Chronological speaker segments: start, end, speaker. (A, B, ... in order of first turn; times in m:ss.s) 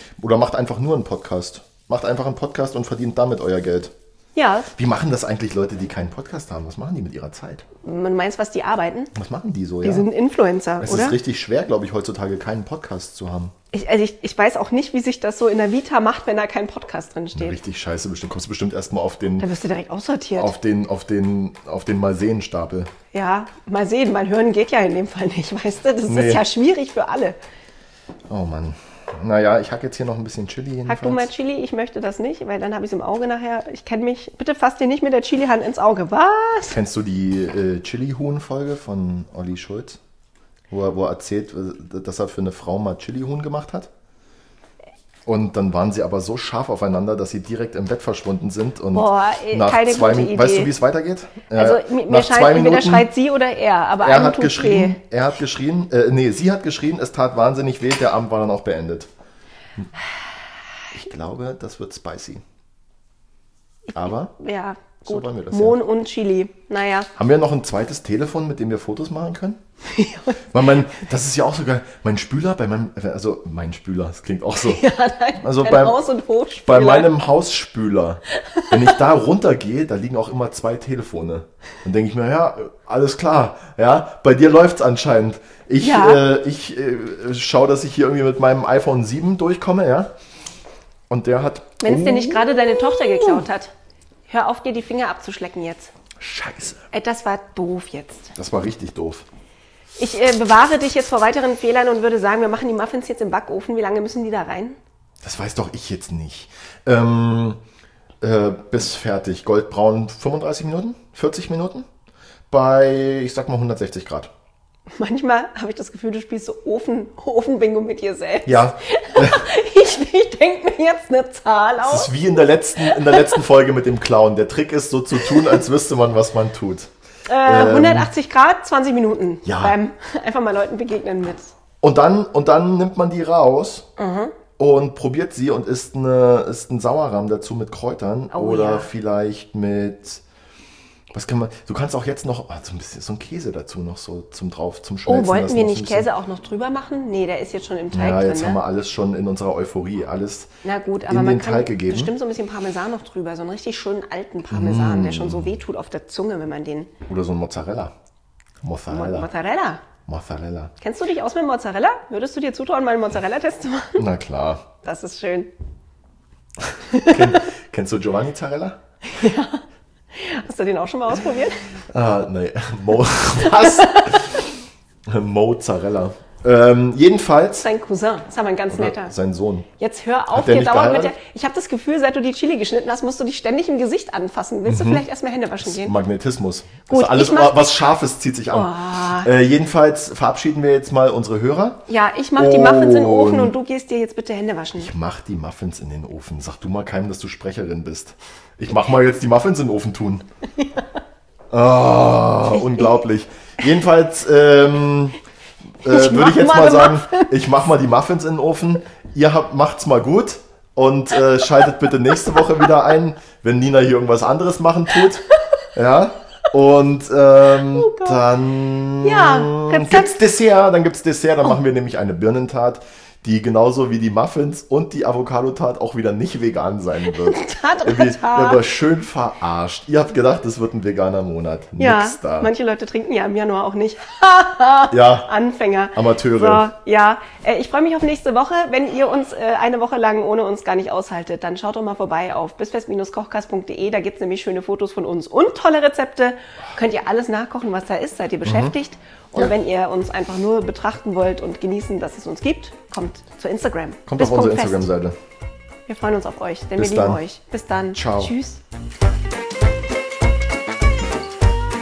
0:00.2-0:03.9 A
0:04.4-0:04.7 B
0:04.7-0:07.6 A
0:07.8-0:09.1 B
0:09.1-0:10.1 A
0:09.8-0:11.2 B
0:10.8-0:13.5 A
0:13.7-0:17.6 B
0:17.4-0:19.5 A
0:19.4-0:20.5 B
0:20.4-0:22.9 A
0:23.1-0:27.4 B
0:26.1-0:26.4 A
0:28.3-0:31.3 A
0:30.9-0:36.8 B
0:36.7-0:40.0 A
0:40.7-0:43.9 A
0:45.3-0:53.1 A
0:48.9-0:50.7 B
0:51.6-0:55.0 B
0:54.0-0:59.1 A
1:00.9-1:02.4 A
1:03.9-1:07.1 B
1:03.9-1:04.3 A
1:05.1-1:05.8 A
1:07.2-1:09.6 A
1:09.9-1:10.5 B
1:10.5-1:14.8 A
1:14.6-1:17.2 B
1:15.4-1:16.0 A
1:16.7-1:30.1 A
1:18.4-1:19.0 B
1:25.8-1:26.2 B
1:31.1-1:33.4 A
1:31.8-1:33.7 B
1:34.3-1:35.9 B
1:36.2-1:36.9 A
1:36.9-1:38.4 B
1:38.4-1:39.3 A
1:40.0-1:44.8 B
1:45.2-1:47.6 A
1:48.2-1:51.9 A
1:52.5-1:54.3 A
1:55.0-2:02.1 B
1:58.5-1:59.4 A
2:01.8-2:06.9 A
2:02.8-2:03.3 B
2:05.2-2:05.5 B
2:07.3-2:11.5 B
2:07.4-2:08.1 A
2:09.4-2:09.8 A
2:11.8-2:13.9 A
2:14.0-2:14.4 B
2:14.6-2:20.2 A
2:18.3-2:18.9 B
2:21.1-2:26.1 A
2:25.1-2:28.6 B
2:27.9-2:30.5 A
2:30.6-2:36.9 B
2:31.1-2:32.1 A
2:34.5-2:35.6 A
2:37.1-2:37.9 A
2:38.6-2:39.3 A
2:38.9-2:39.8 B
2:40.1-2:40.7 A
2:40.8-2:44.0 B
2:44.0-2:44.7 A
2:44.8-2:45.5 B
2:46.9-2:47.4 B
2:46.9-2:48.8 A
2:49.1-2:51.7 B
2:51.9-2:54.5 A
2:53.6-2:54.2 B
2:55.1-2:57.7 A
2:57.6-2:59.1 B
2:58.7-2:59.7 A
2:59.8-3:06.0 B
3:00.3-3:01.2 A
3:04.7-3:05.0 A
3:05.6-3:13.6 A
3:06.9-3:07.6 B
3:08.5-3:09.3 B
3:11.9-3:14.9 B
3:14.8-3:20.3 A
3:21.5-3:25.2 A
3:22.5-3:23.0 B
3:25.8-3:35.2 A
3:25.9-3:27.3 B
3:35.8-3:52.5 A
3:37.6-3:38.2 B
3:39.0-3:40.3 B
3:47.1-3:48.6 B
3:51.8-4:14.9 B
3:54.9-3:55.3 A
3:56.0-3:56.7 A
4:08.4-4:08.7 A
4:14.1-4:15.2 A
4:15.9-4:18.6 B
4:16.8-4:17.2 A
4:17.9-4:18.3 A